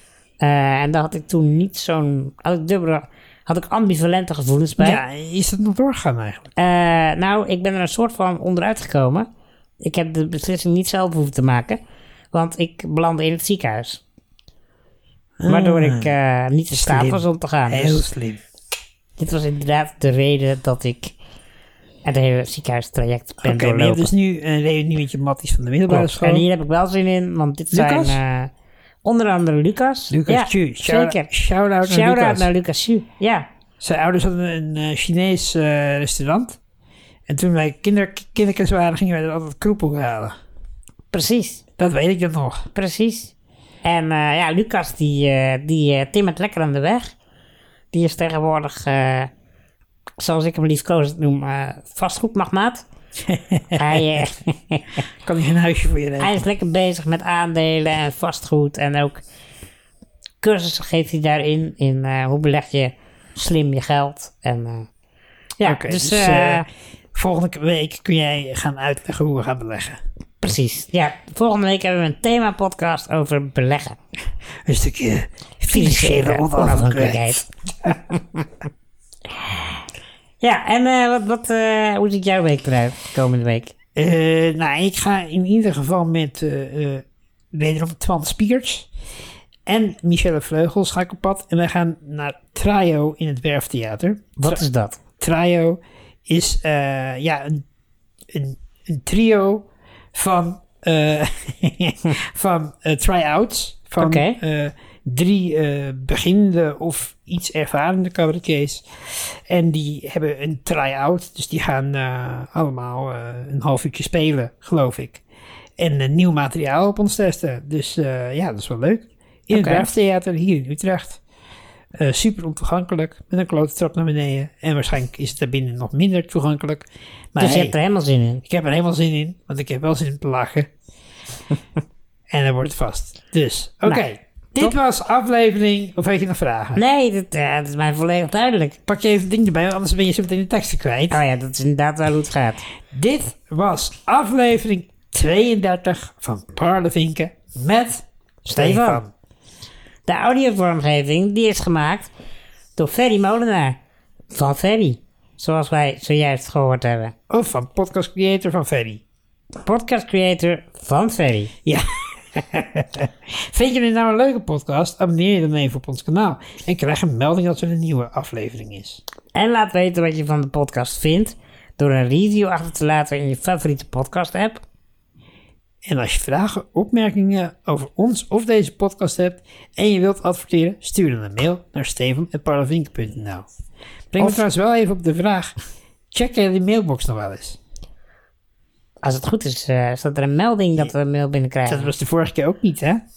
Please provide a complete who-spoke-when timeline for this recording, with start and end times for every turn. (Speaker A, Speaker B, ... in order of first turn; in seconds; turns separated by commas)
Speaker A: 0.4-5.0, Speaker B: 4.8-6.5, Speaker A: 6.6-9.3, Speaker A: 9.8-11.8, Speaker A: 12.3-14.0, Speaker B: 15.4-16.1, Speaker A: 15.5-18.1, Speaker B: 16.7-18.4, Speaker A: 19.2-21.1, Speaker A: 22.0-24.1, Speaker B: 23.4-26.4, Speaker A: 25.9-28.5, Speaker B: 27.7-28.2, Speaker A: 29.0-31.3, Speaker B: 30.1-32.5, Speaker A: 31.8-33.5, Speaker B: 33.8-36.6, Speaker B: 37.3-40.4, Speaker A: 41.1-41.6, Speaker B: 41.8-42.7, Speaker A: 42.7-47.1, Speaker A: 47.9-49.3, Speaker A: 50.2-52.8, Speaker B: 53.3-54.0, Speaker A: 53.7-55.0, Speaker B: 55.2-56.4, Speaker A: 56.2-59.2, Speaker A: 60.4-64.9, Speaker A: 65.6-66.7, Speaker B: 65.6-70.0, Speaker A: 70.4-74.0, Speaker B: 74.7-77.9, Speaker A: 75.7-77.4, Speaker A: 78.1-78.5, Speaker A: 79.3-79.8, Speaker A: 80.4-83.7, Speaker B: 84.0-88.9, Speaker B: 89.7-94.6, Speaker A: 94.4-95.0, Speaker B: 95.2-97.6, Speaker B: 98.3-115.2, Speaker A: 104.0-104.4, Speaker B: 115.8-121.2, Speaker A: 119.5-119.9, Speaker B: 121.9-127.7, Speaker A: 127.4-128.4, Speaker B: 128.4-130.7, Speaker B: 132.3-136.8, Speaker A: 136.8-138.8, Speaker B: 138.9-141.2, Speaker A: 141.1-142.6, Speaker B: 142.9-149.1, Speaker A: 148.4-149.0, Speaker A: 150.1-152.1, Speaker A: 152.8-153.8, Speaker A: 154.3-157.1, Speaker B: 157.3-159.0, Speaker A: 159.6-161.5, Speaker B: 161.7-169.0, Speaker A: 169.3-174.6, Speaker B: 175.8-183.4, Speaker B: 184.1-185.5, Speaker B: 186.1-187.6, Speaker A: 189.0-191.9, Speaker B: 191.7-193.0